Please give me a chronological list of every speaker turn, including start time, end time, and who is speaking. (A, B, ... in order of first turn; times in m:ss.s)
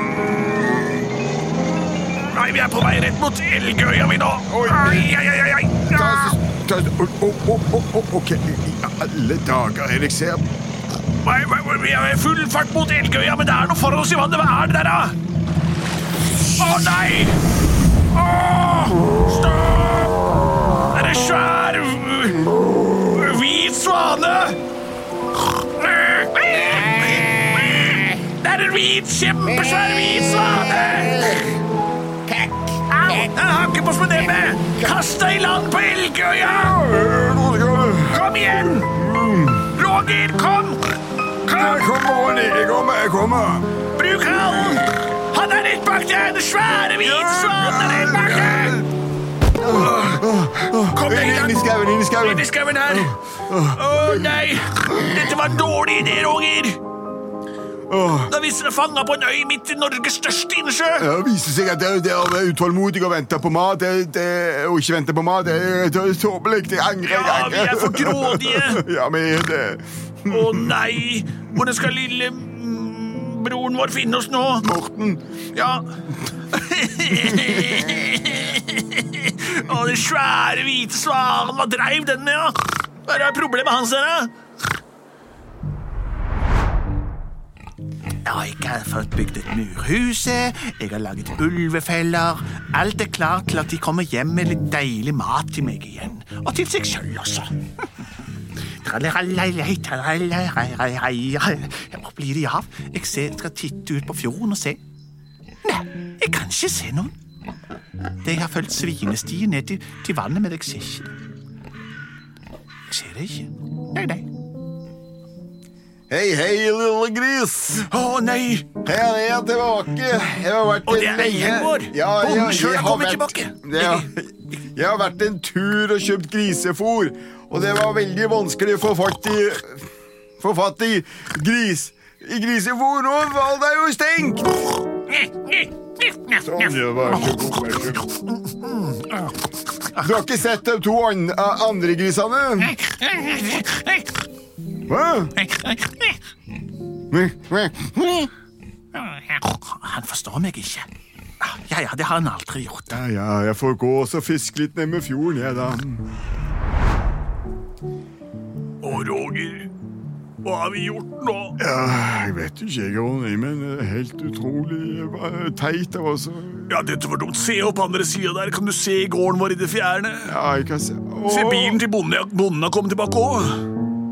0:02.1-0:06.4 A
0:04.5-0:05.1 B
0:05.9-0:10.4 B
0:11.2-0:15.2 A
0:16.6-0:17.4 A
0:18.1-0:20.2 A
0:20.8-0:24.6 A
0:25.8-0:31.6 A
0:30.9-0:31.5 B
0:32.3-0:32.7 B
0:32.8-0:36.8 A
0:36.6-0:39.7 B
0:38.1-0:39.0 A
0:39.7-0:40.9 A
0:41.4-0:41.9 A
0:41.5-0:43.7 B
0:43.9-0:48.8 A
0:47.0-0:48.9 B
0:49.6-0:55.4 B
0:49.7-0:50.2 A
0:50.8-0:51.7 A
0:52.2-0:56.8 A
0:57.9-0:58.3 B
0:58.3-1:01.1 A
1:01.0-1:10.8 B
1:07.0-1:08.8 A
1:10.3-1:14.7 A
1:14.6-1:15.2 B
1:15.5-1:15.9 A
1:16.5-1:24.3 A
1:17.1-1:17.9 B
1:28.2-1:37.6 A
1:38.8-1:44.8 A
1:45.6-1:47.2 A
1:48.2-1:51.1 A
1:52.9-1:54.3 A
1:56.1-1:57.9 B
1:57.9-1:58.7 A
1:58.8-2:09.9 B
2:00.8-2:04.1 A
2:10.4-2:14.7 B
2:15.1-2:16.4 A
2:16.4-2:18.1 B
2:17.2-2:17.4 A
2:18.0-2:20.0 A
2:20.0-2:22.7 B
2:22.6-2:24.0 A
2:24.9-2:25.3 B
2:25.4-2:26.2 A
2:27.1-2:28.3 B
2:29.0-2:30.9 A
2:31.4-2:33.0 A
2:32.9-2:36.0 B
2:38.8-2:39.7 A
2:40.4-2:41.6 A
2:41.6-2:46.7 B
2:46.7-2:50.4 A
2:50.2-2:51.8 B
2:51.3-2:53.7 A